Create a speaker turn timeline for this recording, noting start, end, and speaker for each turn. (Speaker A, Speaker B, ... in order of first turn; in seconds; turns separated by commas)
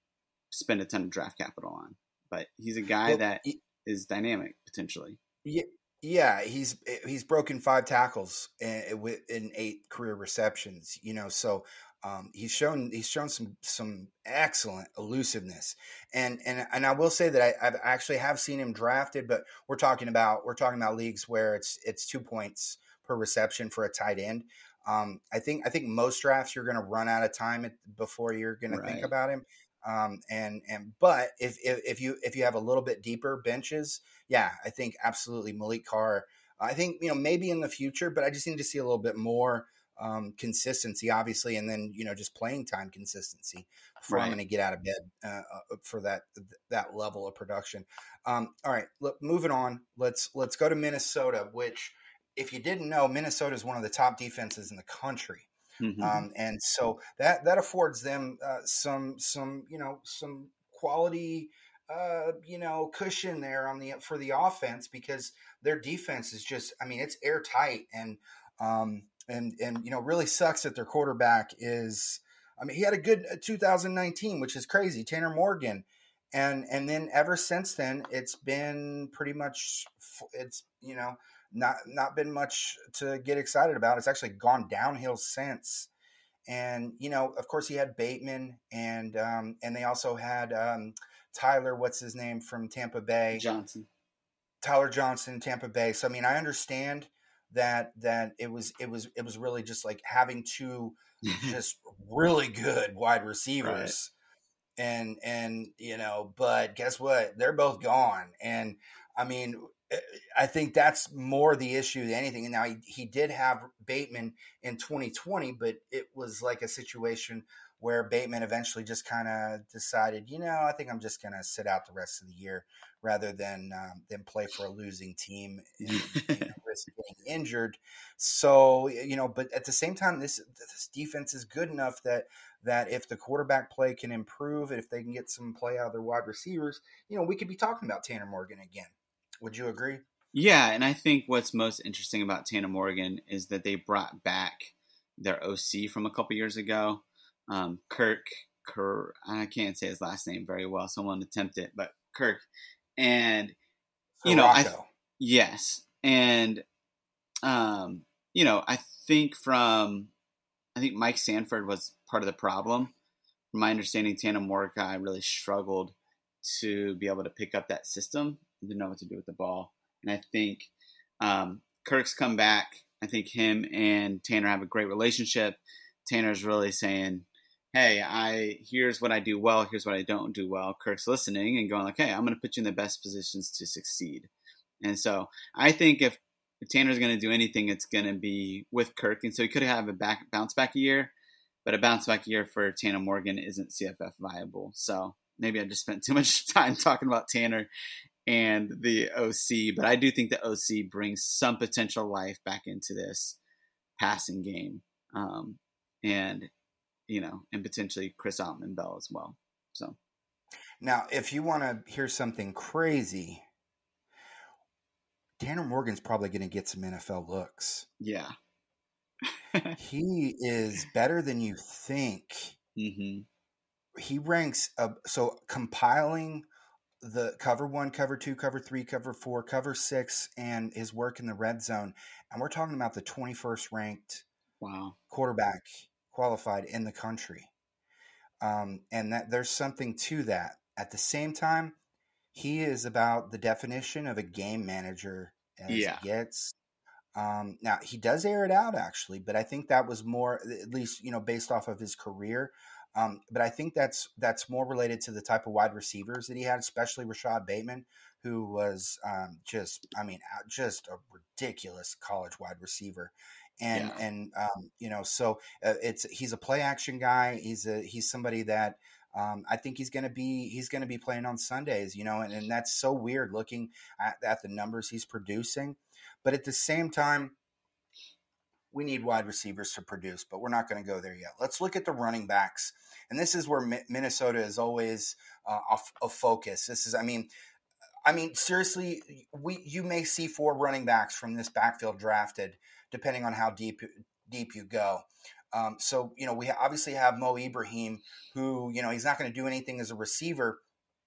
Speaker A: 0.5-5.2, Speaker B: 3.1-3.6, Speaker B: 5.5-55.5, Speaker A: 28.7-29.1, Speaker A: 44.1-44.4, Speaker A: 55.8-56.3, Speaker B: 56.0-85.9, Speaker B: 86.5-93.5, Speaker A: 93.3-93.9, Speaker B: 94.6-104.1, Speaker A: 101.2-101.6, Speaker A: 103.6-103.9, Speaker B: 104.8-140.0, Speaker A: 125.9-126.5, Speaker A: 140.3-152.5, Speaker A: 153.0-153.6, Speaker B: 154.2-154.8, Speaker A: 154.2-156.6, Speaker A: 157.4-160.1, Speaker A: 160.8-162.9, Speaker A: 163.5-170.7, Speaker A: 171.2-184.3, Speaker A: 184.8-191.1, Speaker A: 191.7-197.7, Speaker A: 198.3-203.4, Speaker A: 204.0-206.5, Speaker A: 207.1-210.0, Speaker B: 210.8-213.4, Speaker B: 215.4-217.9, Speaker A: 218.0-218.3, Speaker B: 219.8-222.6, Speaker A: 222.8-223.3, Speaker B: 224.0-226.4, Speaker B: 227.0-234.2, Speaker A: 234.6-235.0, Speaker B: 235.1-237.5, Speaker B: 238.4-241.8, Speaker B: 242.3-246.6, Speaker A: 245.7-246.0, Speaker B: 247.2-277.4, Speaker A: 263.7-264.0, Speaker B: 278.7-287.3, Speaker B: 288.1-300.6